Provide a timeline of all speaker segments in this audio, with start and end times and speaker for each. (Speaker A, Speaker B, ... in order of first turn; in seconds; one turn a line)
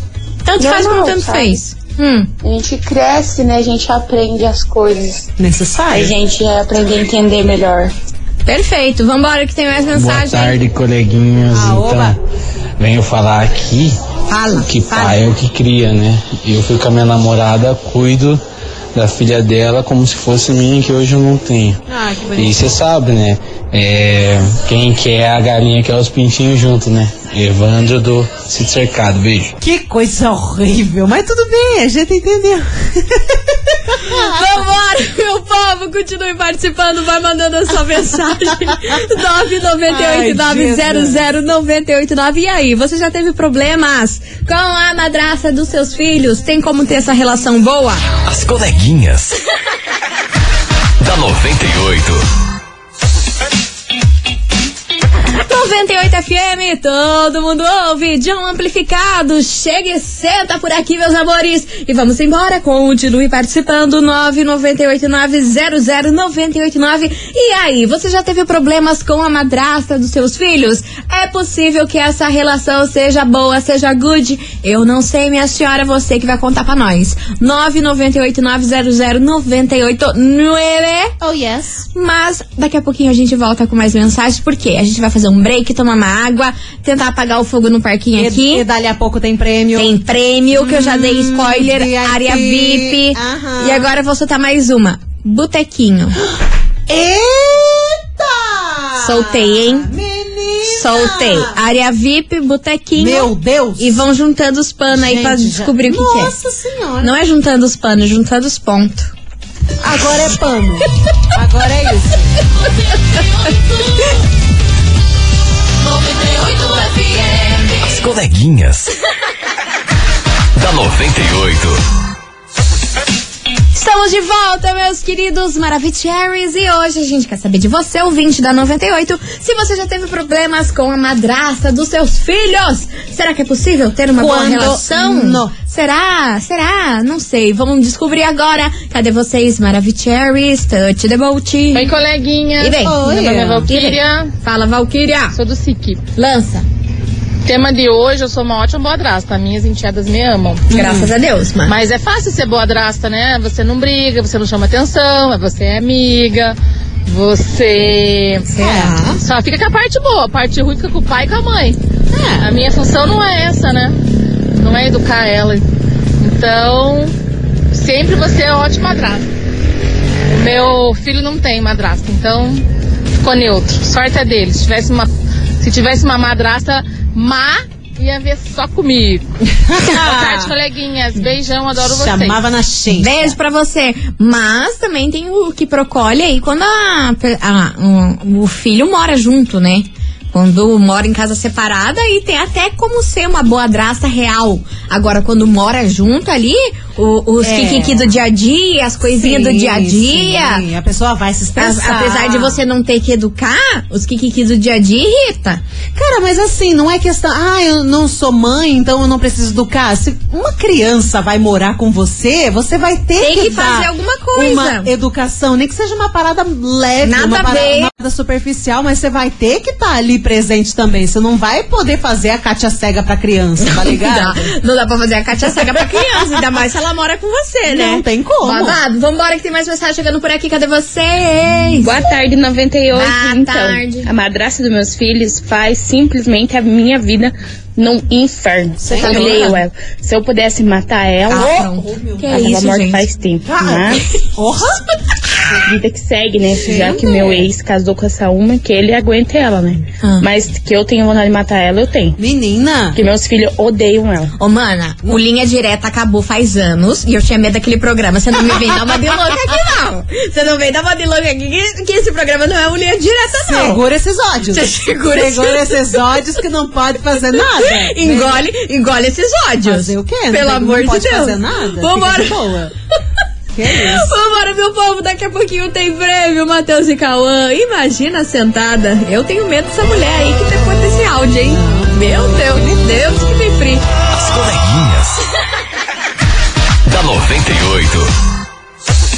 Speaker A: 0.4-2.3
Speaker B: 0.6-1.6
Speaker B: 2.4-5.3
Speaker C: 5.4-6.1
Speaker B: 5.9-7.9
Speaker A: 8.4-10.6
Speaker D: 9.9-12.2
Speaker C: 11.5-12.2
Speaker D: 12.8-13.9
Speaker C: 14.3-15.1
Speaker D: 14.6-18.4
Speaker D: 18.9-21.8
Speaker C: 21.9-22.8
Speaker D: 22.3-29.5
Speaker C: 29.6-34.5
Speaker A: 34.0-48.0
Speaker C: 39.9-41.2
Speaker E: 48.2-49.3
Speaker E: 51.0-52.2
Speaker A: 55.4-81.1
Speaker C: 81.2-81.8
Speaker A: 81.9-88.6
Speaker C: 88.2-89.9
Speaker A: 89.8-96.2
Speaker C: 90.5-93.9
Speaker C: 96.9-101.5
Speaker A: 99.0-99.9
Speaker A: 100.7-106.3
Speaker C: 103.0-104.0
Speaker C: 104.9-107.1
Speaker A: 107.0-109.1
Speaker C: 109.8-112.3
Speaker E: 117.8-118.9
Speaker E: 120.5-121.8
Speaker A: 123.7-141.9
Speaker C: 134.2-135.5
Speaker F: 141.7-144.3
Speaker A: 142.6-145.3
Speaker C: 142.8-143.9
Speaker F: 145.3-146.0
Speaker A: 146.2-146.6
Speaker F: 147.4-150.7
Speaker A: 150.7-151.8
Speaker C: 150.7-151.1
Speaker F: 151.7-156.5
Speaker F: 157.1-158.5
Speaker A: 158.5-159.2
Speaker C: 158.6-158.9
Speaker F: 159.2-161.8
Speaker C: 162.1-162.5
Speaker F: 162.4-164.0
Speaker F: 164.5-165.6
Speaker F: 166.2-167.1
Speaker F: 167.7-169.3
Speaker F: 170.3-172.6
Speaker F: 173.2-175.1
Speaker F: 175.6-179.2
Speaker C: 179.6-180.5
Speaker F: 179.8-182.4
Speaker C: 181.8-183.3
Speaker A: 182.9-200.6
Speaker C: 197.4-198.1
Speaker C: 199.0-202.6
Speaker A: 201.6-205.6
Speaker C: 205.9-224.5
Speaker A: 213.2-214.9
Speaker A: 217.0-217.9
Speaker A: 223.6-231.9
Speaker C: 227.7-228.8
Speaker G: 231.8-241.7
Speaker A: 232.9-234.1
Speaker C: 238.8-239.5
Speaker A: 238.9-239.6
Speaker A: 241.3-243.1
Speaker C: 241.3-242.6
Speaker G: 242.3-244.1
Speaker C: 243.4-244.8
Speaker G: 245.6-252.2
Speaker C: 246.6-247.5
Speaker C: 252.2-253.0
Speaker G: 252.9-254.3
Speaker A: 254.4-263.8
Speaker C: 263.4-268.4
Speaker A: 264.5-265.8
Speaker A: 267.7-272.4
Speaker C: 269.6-272.7
Speaker C: 273.5-274.1
Speaker A: 273.7-283.8
Speaker C: 281.5-281.9
Speaker E: 284.1-285.2
Speaker E: 286.9-288.1